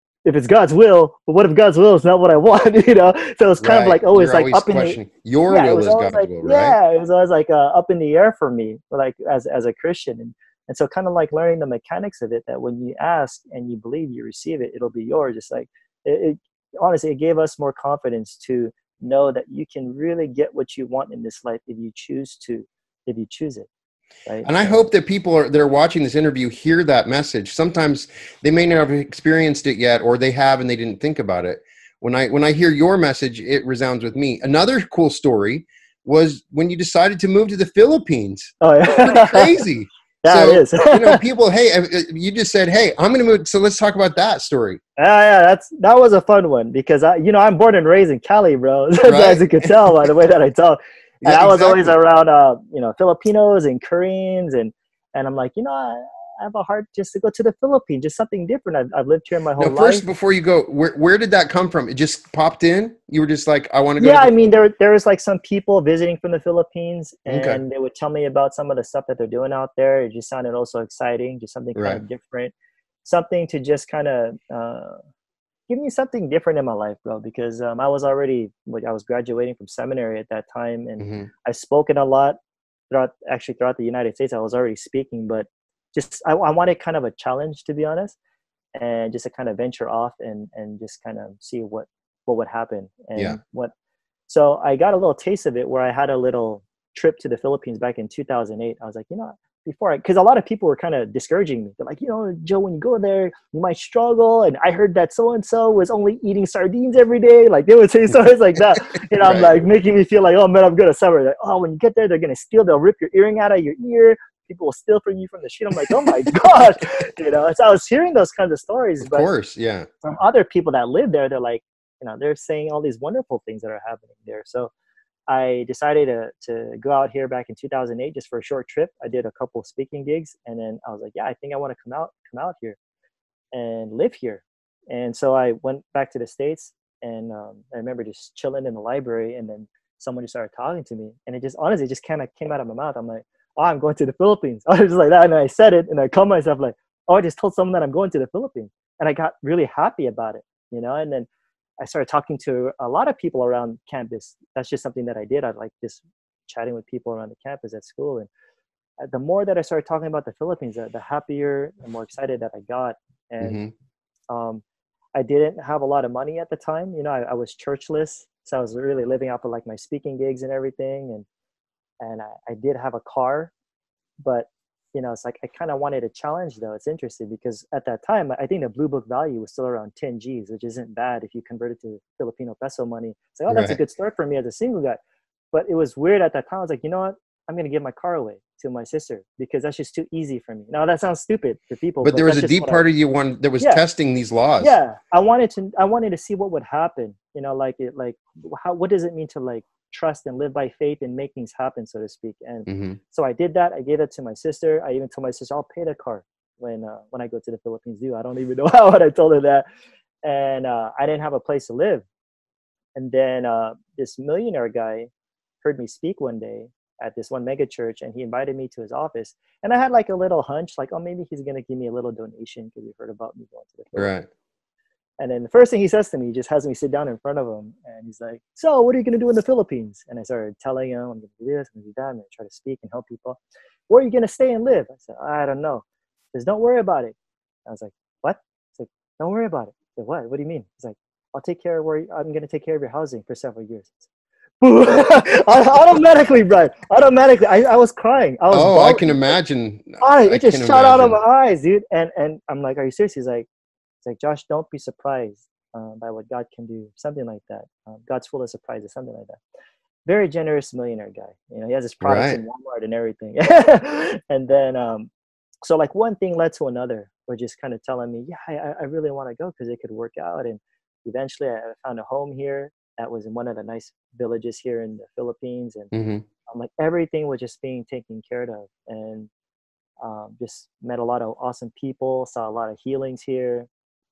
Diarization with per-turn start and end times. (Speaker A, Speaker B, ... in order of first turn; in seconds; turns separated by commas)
Speaker A: 0.2-5.0, Speaker B: 3.6-6.8, Speaker A: 5.5-23.7, Speaker A: 24.2-24.8, Speaker B: 24.4-44.8, Speaker A: 38.6-39.5, Speaker A: 40.2-41.2, Speaker A: 45.0-60.0, Speaker B: 49.0-49.7, Speaker B: 51.2-51.9, Speaker B: 59.6-64.5, Speaker A: 64.0-72.5, Speaker B: 67.3-67.6, Speaker B: 71.7-72.0, Speaker A: 73.0-75.0, Speaker A: 75.7-82.4, Speaker B: 81.0-81.3, Speaker A: 82.9-88.2, Speaker A: 88.7-93.7, Speaker A: 94.3-119.3, Speaker B: 109.2-109.6, Speaker B: 119.0-119.9, Speaker A: 120.0-124.7, Speaker A: 125.3-132.8, Speaker A: 133.5-151.3, Speaker A: 151.8-158.3, Speaker A: 159.0-163.6, Speaker B: 163.4-163.7, Speaker A: 164.3-164.6, Speaker A: 165.1-171.2, Speaker A: 172.0-173.5, Speaker A: 174.2-185.0, Speaker B: 183.5-183.8, Speaker A: 185.5-192.8, Speaker B: 192.0-194.7, Speaker A: 194.6-209.7, Speaker B: 202.7-203.0, Speaker A: 210.2-212.0, Speaker A: 212.9-215.1, Speaker A: 215.6-224.1, Speaker B: 223.9-224.3, Speaker A: 225.2-237.1, Speaker A: 237.7-244.1, Speaker A: 244.6-249.2, Speaker B: 248.5-251.2, Speaker A: 250.0-253.4, Speaker A: 254.0-259.4, Speaker A: 260.1-265.1, Speaker B: 262.0-262.4, Speaker A: 265.6-275.9, Speaker B: 275.9-276.2, Speaker A: 276.5-279.3, Speaker A: 280.0-283.7